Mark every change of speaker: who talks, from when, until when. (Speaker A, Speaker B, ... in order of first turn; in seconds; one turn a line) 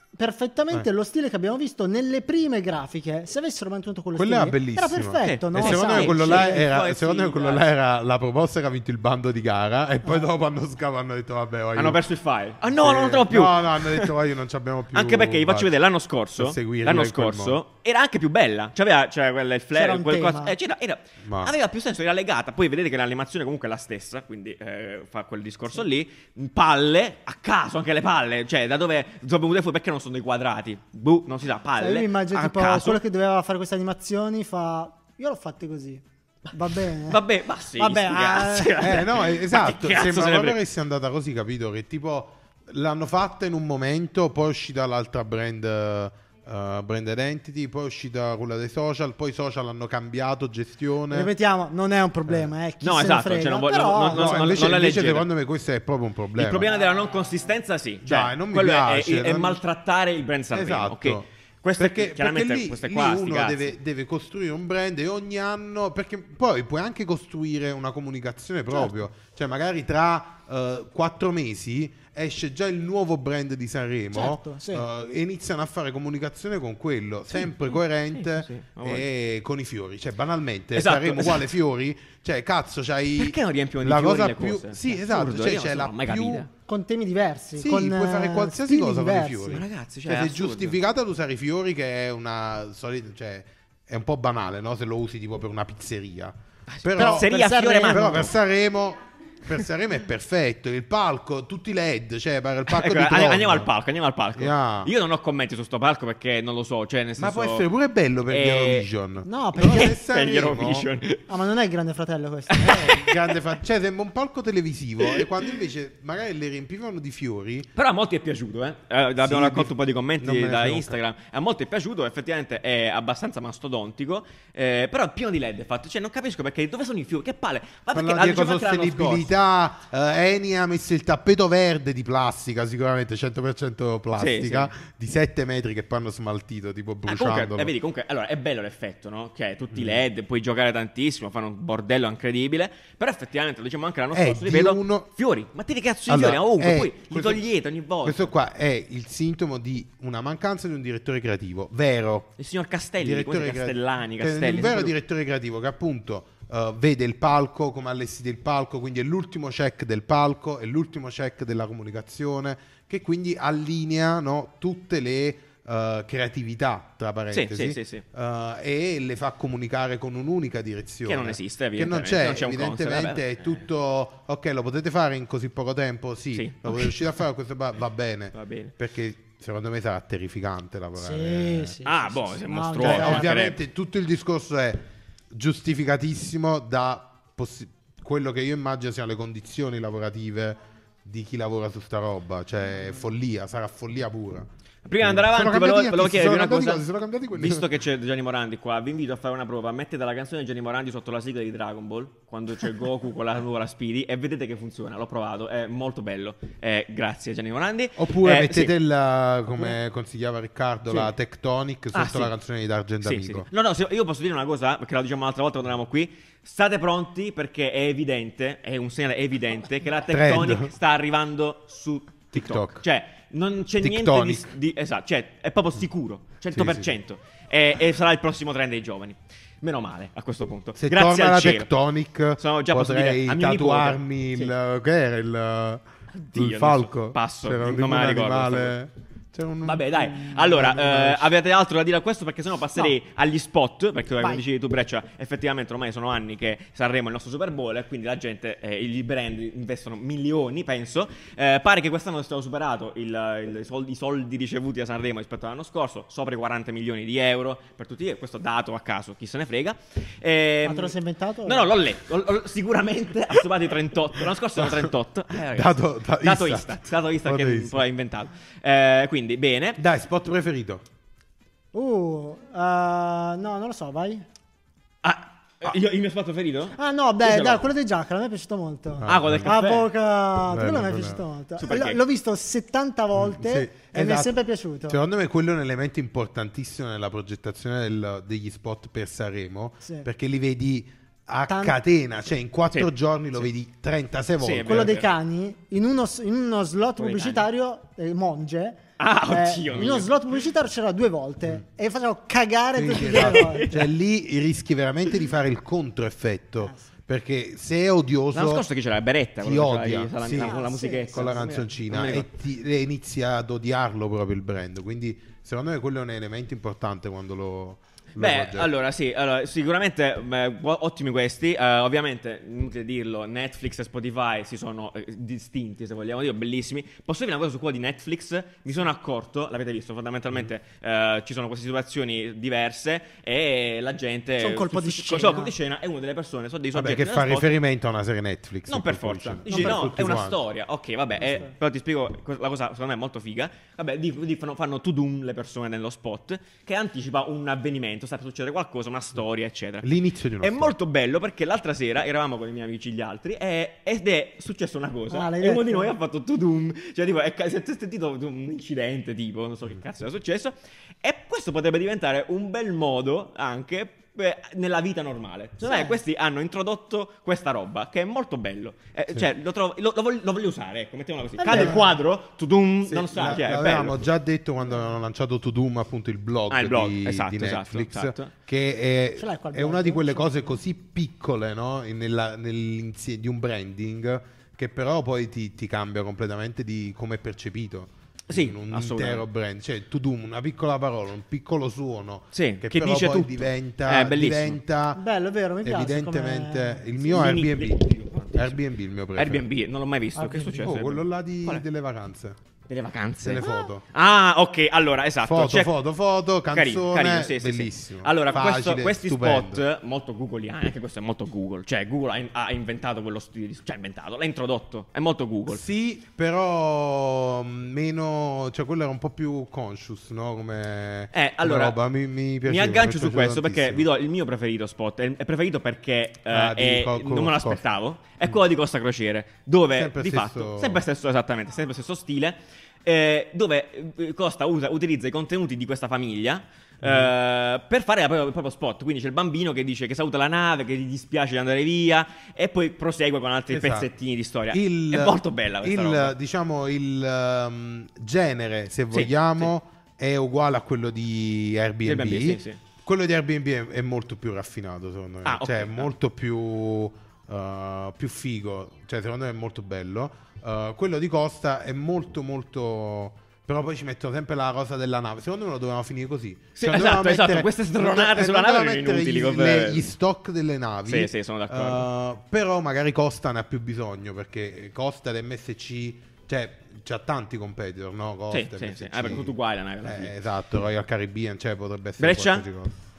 Speaker A: 0.1-6.7
Speaker B: 4.2-12.0
Speaker C: 5.2-7.7
Speaker A: 10.0-10.3
Speaker C: 11.7-14.1
Speaker B: 12.7-15.7
Speaker C: 14.9-33.0
Speaker B: 16.4-17.6
Speaker A: 19.7-20.5
Speaker B: 21.2-21.5
Speaker A: 31.8-37.2
Speaker C: 36.7-40.6
Speaker A: 37.8-39.1
Speaker B: 38.8-51.3
Speaker A: 51.1-54.5
Speaker C: 52.8-55.3
Speaker B: 54.1-56.7
Speaker C: 56.3-63.7
Speaker B: 58.0-59.6
Speaker B: 60.5-61.3
Speaker B: 61.8-86.5
Speaker A: 74.1-74.8
Speaker C: 78.1-79.1
Speaker C: 80.7-81.5
Speaker C: 83.2-86.5
Speaker A: 86.7-89.6
Speaker B: 87.5-97.3
Speaker C: 89.5-90.8
Speaker C: 96.7-98.3
Speaker A: 97.0-98.3
Speaker B: 97.8-103.7
Speaker C: 102.7-107.7
Speaker B: 104.3-104.9
Speaker B: 107.2-110.9
Speaker C: 108.3-108.9
Speaker A: 109.2-110.0
Speaker C: 109.6-111.3
Speaker A: 111.3-113.0
Speaker C: 112.5-113.1
Speaker B: 112.6-117.7
Speaker C: 117.7-129.3
Speaker B: 119.2-121.0
Speaker B: 127.9-137.7
Speaker C: 134.2-134.7
Speaker C: 137.1-148.3
Speaker B: 139.7-140.0
Speaker B: 144.1-145.1
Speaker B: 146.1-147.4
Speaker B: 148.0-152.3
Speaker C: 152.4-154.9
Speaker B: 153.0-181.8
Speaker C: 167.3-168.0
Speaker C: 171.0-173.6
Speaker C: 176.3-177.0
Speaker C: 178.3-178.7
Speaker A: 180.9-183.3
Speaker C: 181.8-183.6
Speaker B: 182.8-194.5
Speaker C: 194.8-208.7
Speaker B: 195.0-197.7
Speaker B: 208.0-213.5
Speaker C: 211.9-212.3
Speaker C: 213.0-231.7
Speaker B: 220.1-220.7
Speaker B: 222.3-222.8
Speaker B: 223.8-224.5
Speaker B: 226.5-226.9
Speaker B: 230.8-235.8
Speaker C: 232.4-234.5
Speaker C: 236.1-238.7
Speaker B: 236.3-241.3
Speaker C: 239.6-269.8
Speaker A: 260.6-261.7
Speaker B: 264.6-267.8
Speaker B: 269.8-270.8
Speaker A: 271.7-274.2
Speaker C: 275.0-277.7
Speaker A: 276.8-285.0
Speaker B: 279.0-279.5
Speaker C: 279.1-279.9
Speaker B: 280.5-281.2
Speaker C: 281.6-282.0
Speaker B: 283.1-284.3
Speaker B: 284.9-294.9
Speaker A: 291.5-291.8
Speaker C: 294.4-295.1
Speaker A: 294.6-303.9
Speaker C: 297.0-297.4
Speaker C: 299.0-300.1
Speaker B: 302.7-308.6
Speaker C: 302.9-303.8
Speaker C: 308.3-312.3
Speaker B: 309.4-318.7
Speaker A: 310.4-311.3
Speaker C: 318.1-337.6
Speaker A: 334.4-335.5
Speaker B: 336.7-340.4
Speaker C: 338.7-374.0
Speaker A: 339.5-339.9
Speaker B: 349.8-350.7
Speaker A: 355.1-355.9
Speaker A: 365.6-366.0
Speaker A: 371.4-371.9
Speaker B: 371.5-371.8
Speaker B: 372.9-395.0
Speaker C: 376.5-378.3
Speaker A: 379.2-380.5
Speaker C: 388.3-389.2
Speaker C: 392.3-394.6
Speaker A: 394.9-397.0
Speaker B: 395.6-399.4
Speaker C: 397.1-398.6
Speaker C: 399.1-401.6
Speaker A: 400.1-400.7
Speaker B: 400.6-402.4
Speaker C: 402.7-405.7
Speaker B: 403.2-403.8
Speaker B: 405.2-409.6
Speaker C: 406.5-415.6
Speaker B: 415.5-423.9
Speaker C: 421.1-421.8
Speaker C: 422.4-446.1
Speaker B: 426.3-427.6
Speaker B: 429.7-430.8
Speaker B: 436.8-437.1
Speaker B: 443.5-443.9
Speaker B: 444.5-482.7
Speaker C: 448.9-449.5
Speaker C: 451.8-452.6
Speaker C: 455.2-455.9
Speaker C: 466.6-469.9
Speaker C: 470.9-471.9
Speaker C: 478.3-480.1
Speaker C: 482.0-482.5